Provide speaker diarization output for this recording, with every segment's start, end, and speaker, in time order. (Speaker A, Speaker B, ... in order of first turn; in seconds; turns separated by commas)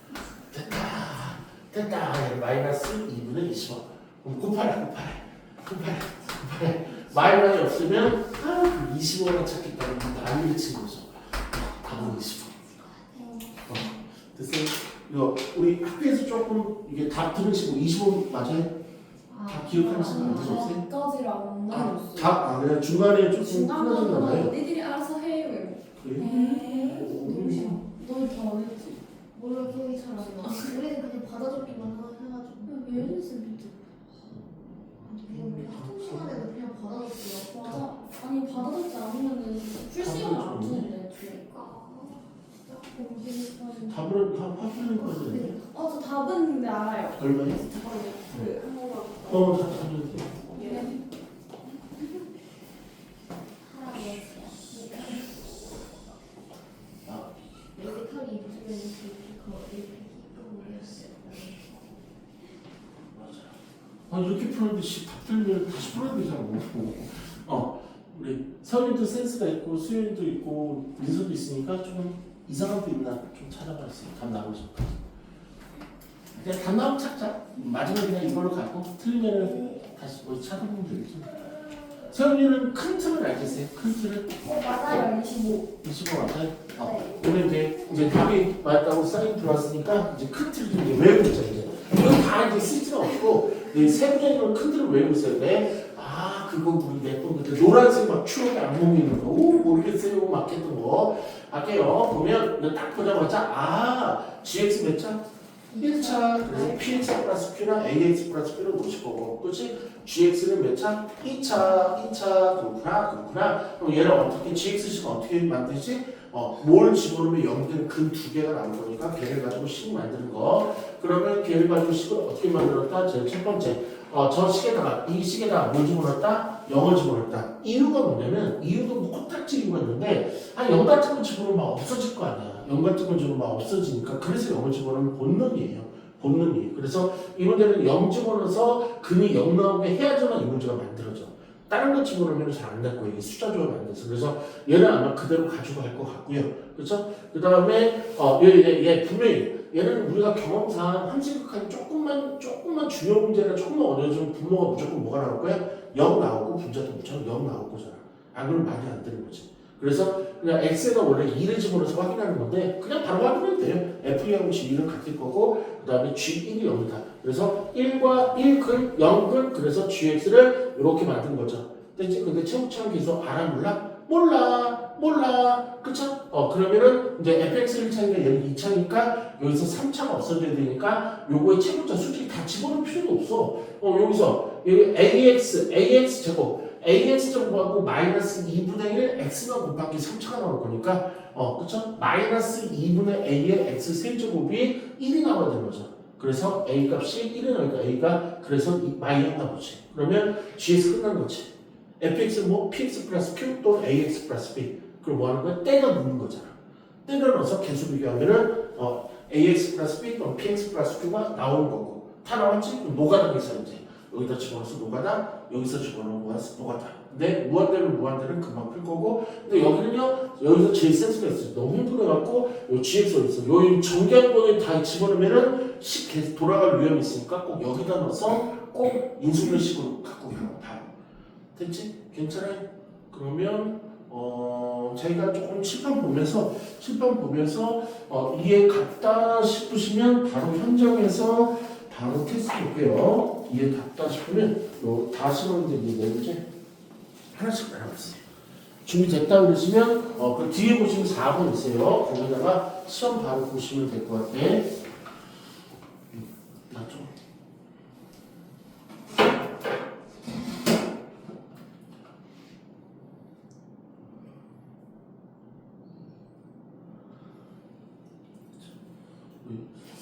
Speaker A: 0.5-12.6, Speaker B: 12.9-13.7, Speaker A: 13.7-18.7, Speaker B: 19.3-20.7, Speaker A: 19.5-20.9, Speaker C: 19.8-22.4, Speaker A: 21.7-24.5, Speaker C: 23.4-29.0, Speaker A: 26.0-26.3, Speaker B: 26.2-27.6, Speaker A: 26.9-27.8, Speaker B: 29.3-33.1, Speaker C: 30.1-30.8, Speaker C: 32.7-33.8, Speaker B: 35.0-37.7, Speaker A: 35.3-36.5, Speaker C: 37.5-41.4, Speaker A: 40.0-40.9, Speaker B: 41.2-42.2, Speaker C: 42.7-44.0, Speaker A: 43.9-45.6, Speaker C: 45.1-49.4, Speaker B: 45.2-45.6, Speaker A: 47.2-47.6, Speaker A: 49.2-50.4, Speaker C: 50.5-51.0, Speaker B: 50.6-50.9, Speaker B: 53.6-55.3, Speaker A: 57.0-57.5, Speaker B: 57.8-61.9, Speaker A: 63.1-63.5, Speaker A: 64.1-75.0, Speaker A: 76.3-84.9, Speaker C: 84.4-85.6, Speaker A: 85.6-105.2, Speaker B: 86.8-87.2, Speaker A: 105.8-230.9, Speaker C: 105.8-106.6, Speaker A: 231.6-246.4, Speaker A: 247.3-248.2, Speaker A: 248.8-254.8, Speaker A: 256.1-257.1, Speaker A: 269.4-269.8